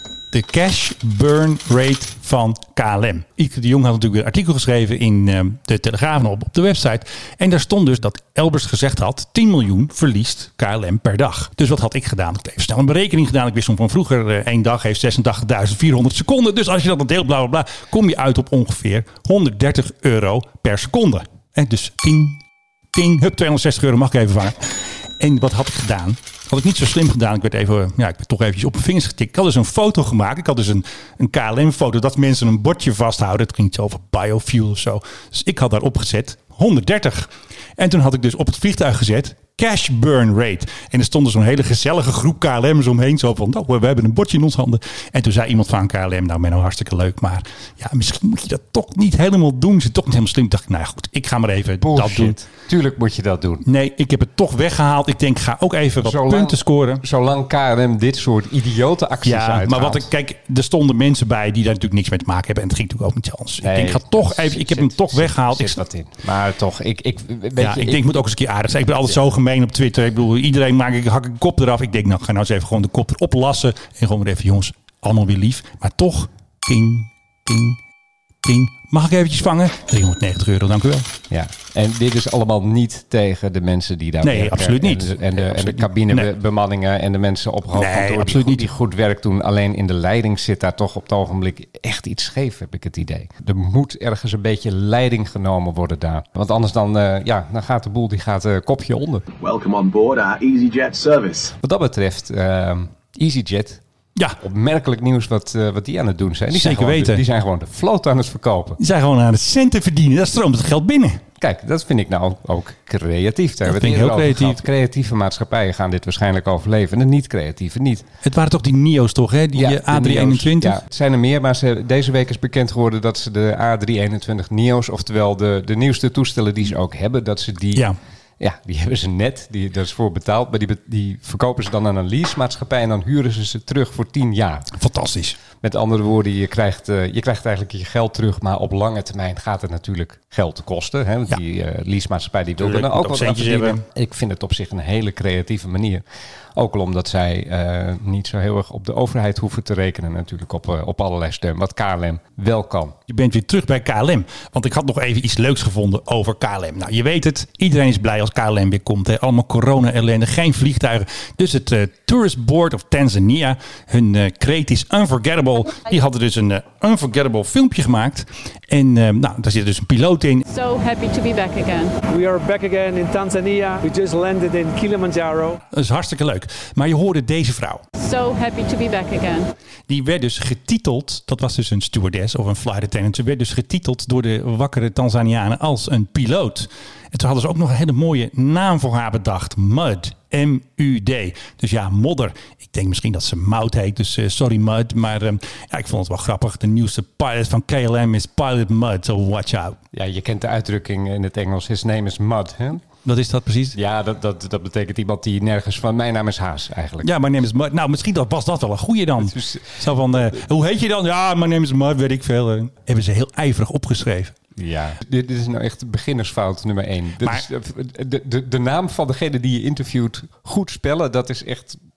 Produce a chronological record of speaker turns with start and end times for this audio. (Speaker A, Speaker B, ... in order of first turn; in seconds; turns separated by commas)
Speaker A: 0.3-22.4, Speaker A: 22.9-52.3, Speaker B: 51.8-53.6, Speaker A: 53.6-57.0, Speaker B: 56.0-60.1, Speaker A: 59.2-65.8, Speaker B: 63.6-68.2, Speaker A: 67.6-77.8, Speaker A: 78.4-81.1, Speaker B: 81.3-99.2, Speaker A: 84.2-86.3, Speaker A: 87.7-88.7, Speaker C: 99.4-101.5, Speaker B: 101.6-103.8, Speaker B: 104.4-108.8, Speaker A: 106.5-107.2, Speaker A: 108.8-111.2, Speaker B: 111.4-118.0, Speaker A: 113.7-114.6, Speaker A: 118.2-120.8, Speaker B: 119.5-134.7, Speaker A: 134.7-135.4, Speaker B: 135.6-146.0, Speaker A: 142.6-143.8, Speaker B: 146.5-152.9, Speaker A: 153.1-170.4, Speaker D: 170.5-172.0, Speaker E: 172.1-175.6, Speaker A: 175.7-177.8, Speaker D: 178.0-179.5, Speaker A: 179.9-199.8, Speaker B: 199.9-202.8, Speaker A: 203.0-203.8, Speaker B: 203.7-207.1, Speaker A: 207.0-214.3, Speaker B: 209.2-210.3, Speaker B: 214.6-221.8